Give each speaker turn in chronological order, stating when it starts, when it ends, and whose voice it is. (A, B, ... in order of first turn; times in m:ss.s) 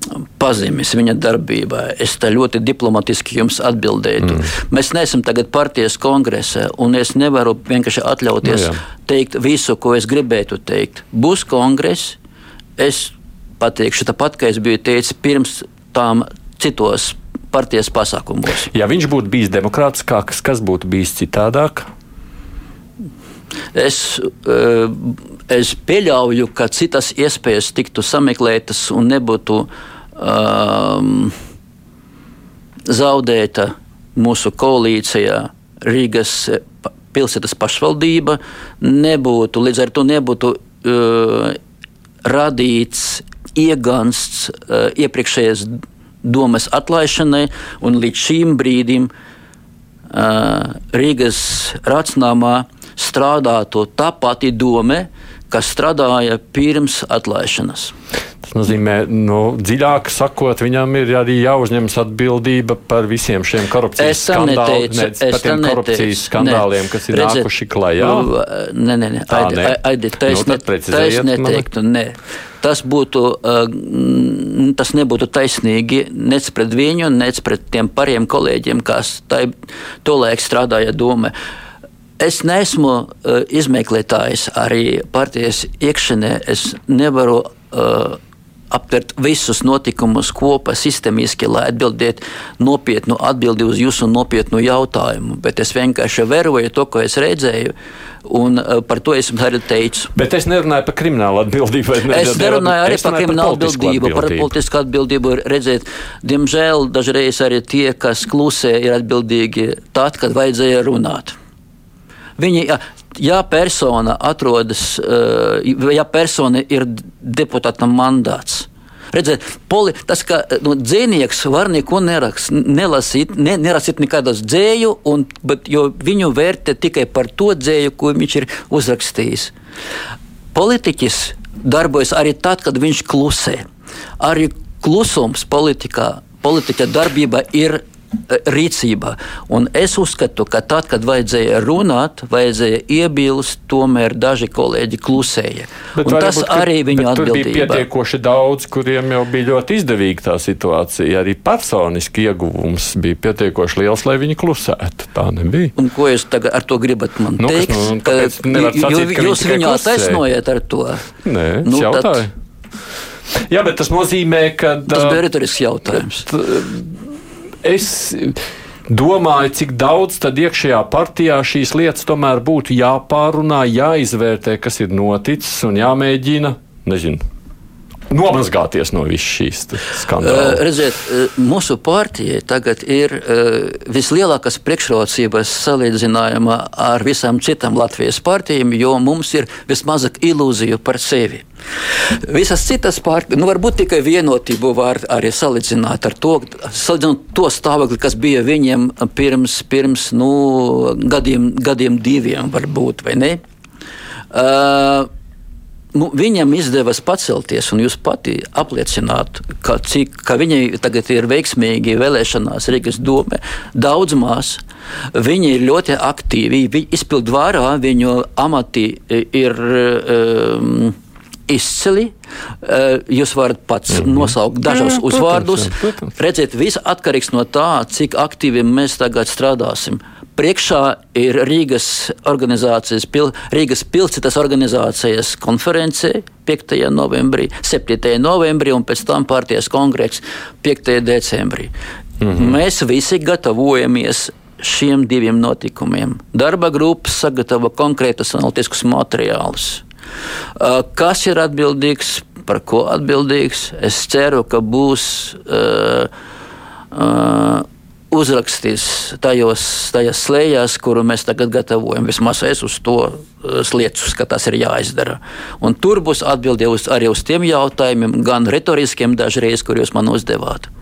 0:00.4-0:12.2 A
0:04.2-0:04.5 B
0:08.4-0:08.8 B
0:12.8-0:18.7 A
0:18.7-0:21.9 B
0:23.7-0:31.4 A
0:32.9-0:41.6 A
0:42.2-0:49.1 A
0:50.1-0:57.9 A
0:58.4-1:08.3 B
1:04.0-1:07.5 A
1:08.0-1:19.5 A
1:09.3-1:11.7 B
1:20.0-1:21.3 A
1:22.2-1:28.2 A
1:28.7-1:37.7 A
1:38.2-1:40.1 A
1:40.2-1:44.5 B
1:42.1-1:51.4 A
1:52.4-2:09.5 A
2:10.5-2:13.6 A
2:14.2-2:27.8 A
2:26.0-2:35.7 B
2:35.8-2:41.1 A
2:37.4-2:40.2 B
2:41.2-2:42.3 B
2:41.6-2:42.2 A
2:43.3-2:45.2 B
2:44.9-2:46.4 A
2:45.9-2:47.0 B
2:47.6-2:57.2 B
2:58.1-3:00.6 B
3:00.2-3:11.4 A
3:12.2-3:23.4 A
3:24.3-3:25.1 A
3:25.9-3:34.6 A
3:35.1-3:41.0 A
3:41.5-4:01.7 A
3:43.9-3:46.2 B
4:02.2-4:02.6 B
4:02.3-4:09.8 A
4:10.6-4:16.1 A
4:16.9-4:30.7 A